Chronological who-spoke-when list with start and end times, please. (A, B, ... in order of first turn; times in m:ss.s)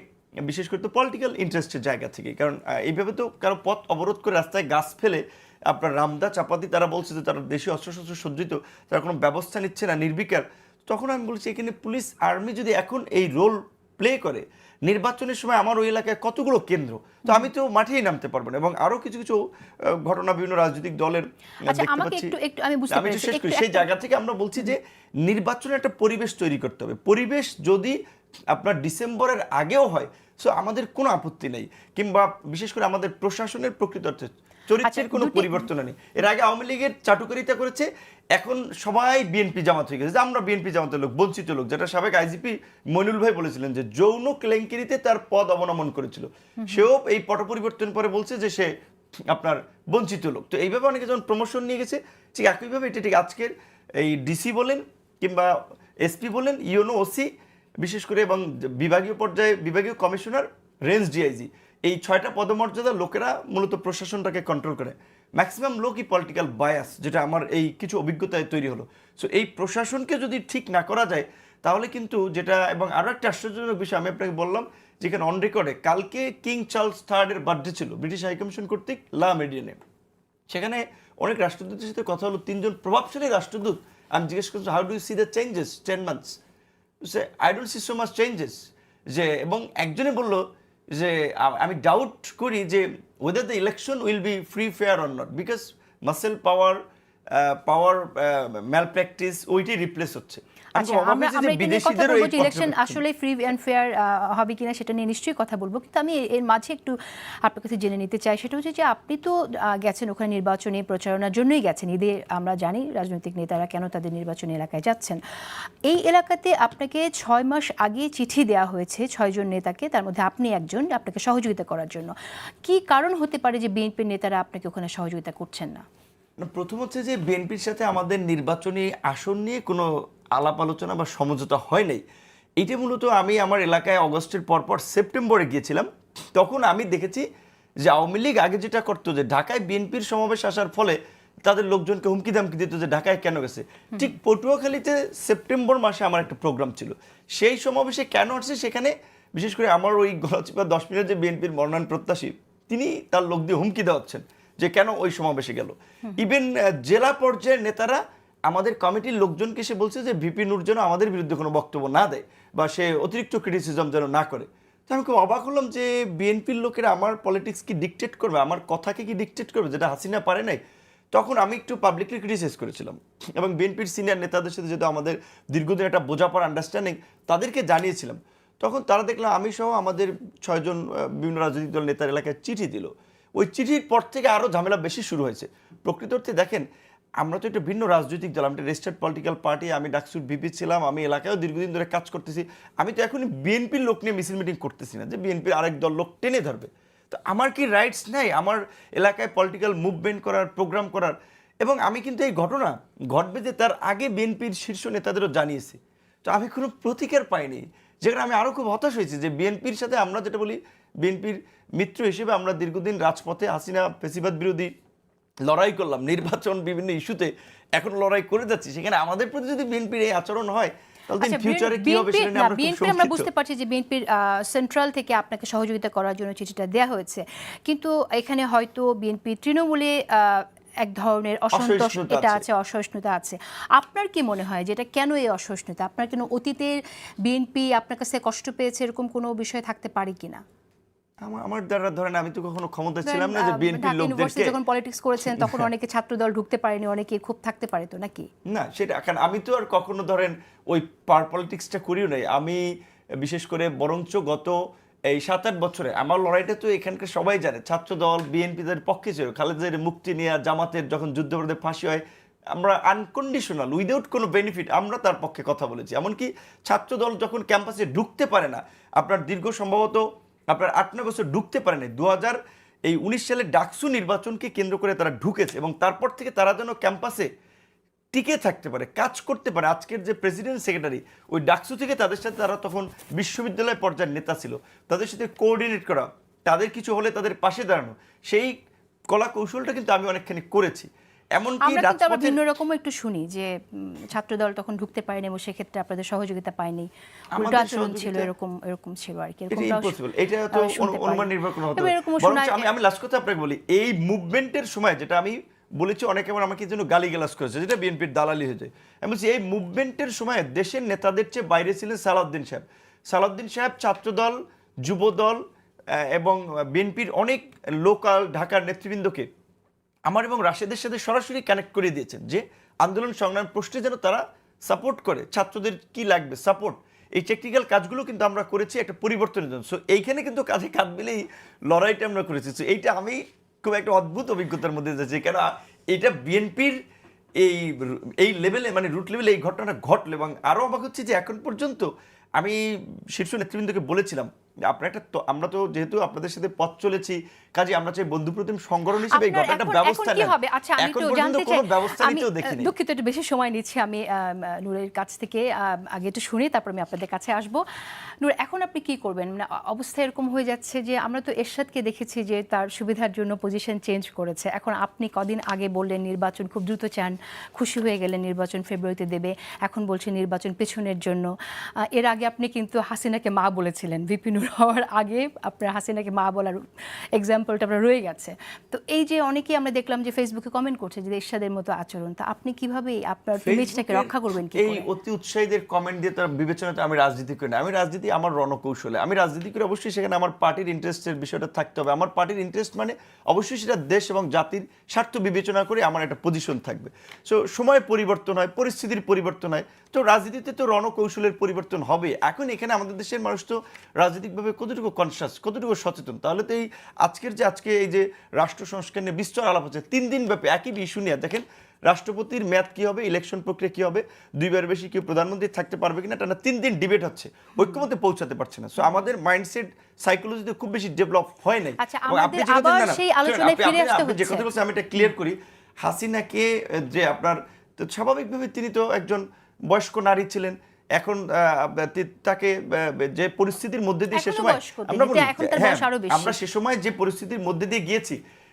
0:00.5-0:19.4 A
0:19.9-0:22.3 A
0:21.7-0:23.9 B
0:22.9-0:28.0 A
0:28.5-0:48.7 A
0:34.8-0:35.7 B
0:46.6-0:46.9 B
0:49.3-0:57.3 A
0:57.8-1:19.8 A
1:20.5-1:26.4 A
1:27.0-1:30.4 A
1:30.9-1:36.8 A
1:37.3-1:43.0 A
1:40.8-1:55.2 B
1:55.9-2:05.8 B
2:06.4-2:12.0 A
2:12.6-2:17.2 A
2:17.8-2:50.6 A
2:51.1-3:06.7 A
3:07.2-3:34.7 A
3:35.4-3:43.3 A
3:41.2-4:00.4 B
3:51.5-3:52.4 A
4:01.2-4:04.6 A
4:03.0-4:08.3 B
4:05.2-4:05.7 A
4:08.5-4:12.6 A
4:13.2-4:14.6 A
4:15.1-4:22.0 A
4:22.5-4:37.3 A
4:38.1-4:48.5 A
4:49.1-4:52.4 A
4:51.6-5:00.0 B
4:57.3-4:58.3 A
4:59.5-5:15.4 A
5:00.5-5:02.7 B
5:15.9-5:19.3 A
5:20.1-5:36.8 A
5:37.4-5:42.6 A
5:43.1-5:52.7 A
5:49.1-5:57.6 B
5:58.2-6:11.3 B
6:12.0-6:16.6 B
6:17.2-6:24.8 B
6:23.4-7:18.2 A
7:01.8-7:04.5 B
7:14.1-7:16.4 B